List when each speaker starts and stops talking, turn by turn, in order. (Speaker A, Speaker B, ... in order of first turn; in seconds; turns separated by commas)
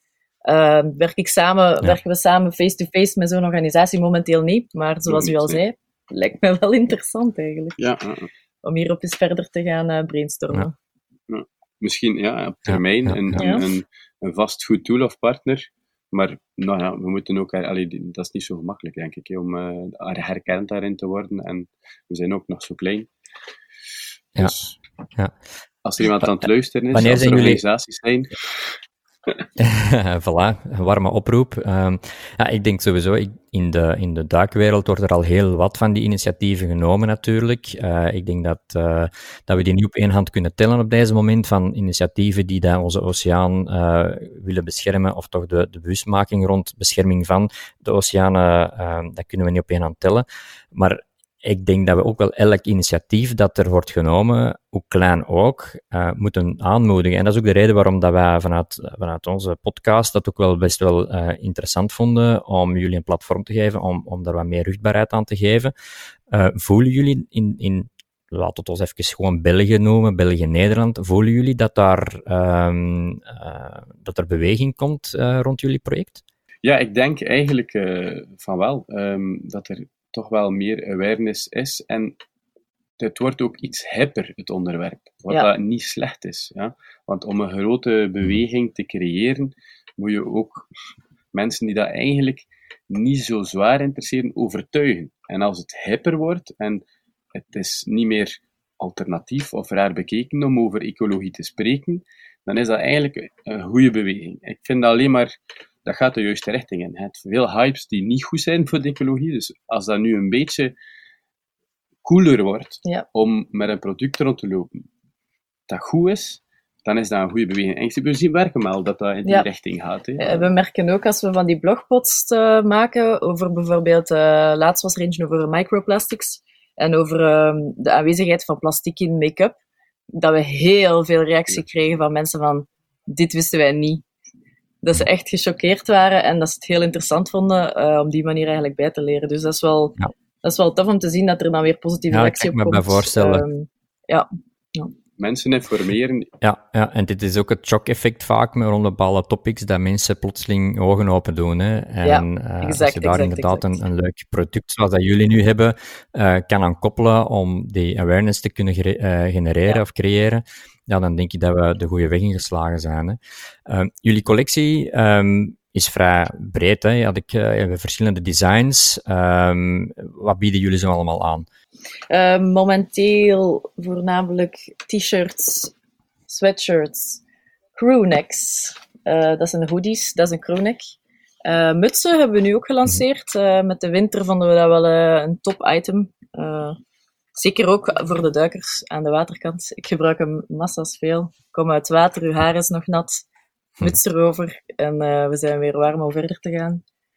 Speaker A: 0.5-7.9, Speaker B: 5.0-5.6, Speaker B: 7.8-8.3, Speaker A: 8.6-10.7, Speaker B: 11.3-23.1, Speaker C: 12.7-13.4, Speaker A: 13.3-13.6, Speaker B: 24.3-24.8, Speaker B: 25.8-28.6, Speaker C: 26.9-27.6, Speaker C: 29.6-65.7, Speaker C: 66.3-76.2, Speaker B: 76.6-82.2, Speaker B: 83.0-90.7, Speaker B: 91.3-105.3, Speaker B: 105.8-110.7, Speaker B: 112.0-114.8, Speaker B: 115.7-120.5, Speaker A: 120.2-129.6, Speaker A: 130.1-134.0, Speaker A: 134.8-144.9, Speaker C: 142.1-143.4, Speaker B: 145.2-146.3, Speaker C: 146.4-171.5, Speaker A: 152.0-153.8, Speaker A: 172.1-175.7, Speaker A: 176.3-177.2, Speaker A: 177.8-186.8, Speaker A: 187.3-193.2, Speaker A: 193.8-196.8